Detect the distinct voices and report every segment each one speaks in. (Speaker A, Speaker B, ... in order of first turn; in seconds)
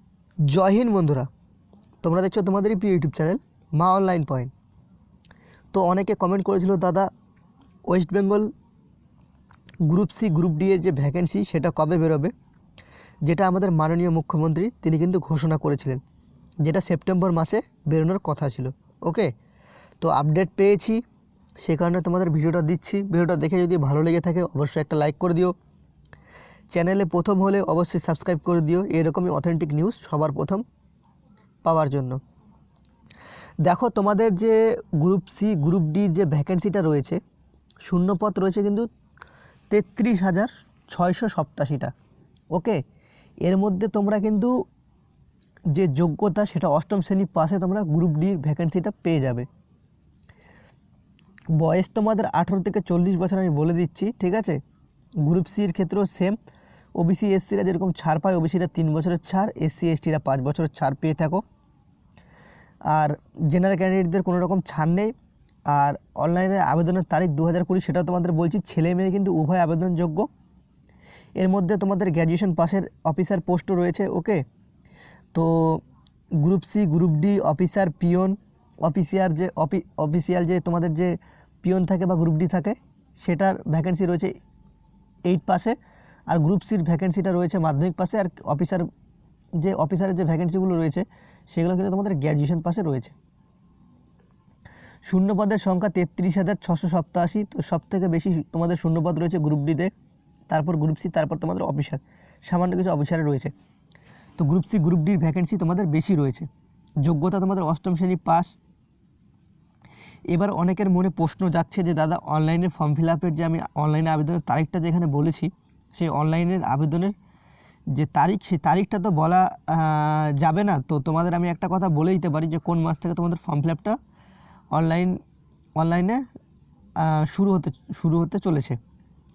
Speaker A: 0.5-1.3, 2.0-4.5, 5.7-7.1, 7.9-8.5, 9.8-12.3, 13.2-16.0, 16.6-19.3, 20.0-21.0, 21.6-25.5, 26.7-30.6, 31.6-32.2, 33.6-37.2, 37.8-38.9, 39.7-41.9, 42.5-42.8, 43.4-44.5, 45.7-49.5, 51.5-54.6, 55.2-56.4, 57.0-61.4, 62.9-65.1, 65.7-70.3, 71.4-74.4, 75.3-75.8, 76.4-84.3, 85.2-85.8, 86.3-88.8, 89.6-93.1, 95.0-99.9, 100.5-103.5, 104.4-106.5, 107.0-108.5, 110.3-117.1, 117.9-124.0, 124.7-125.2, 125.8-126.2, 127.0-128.8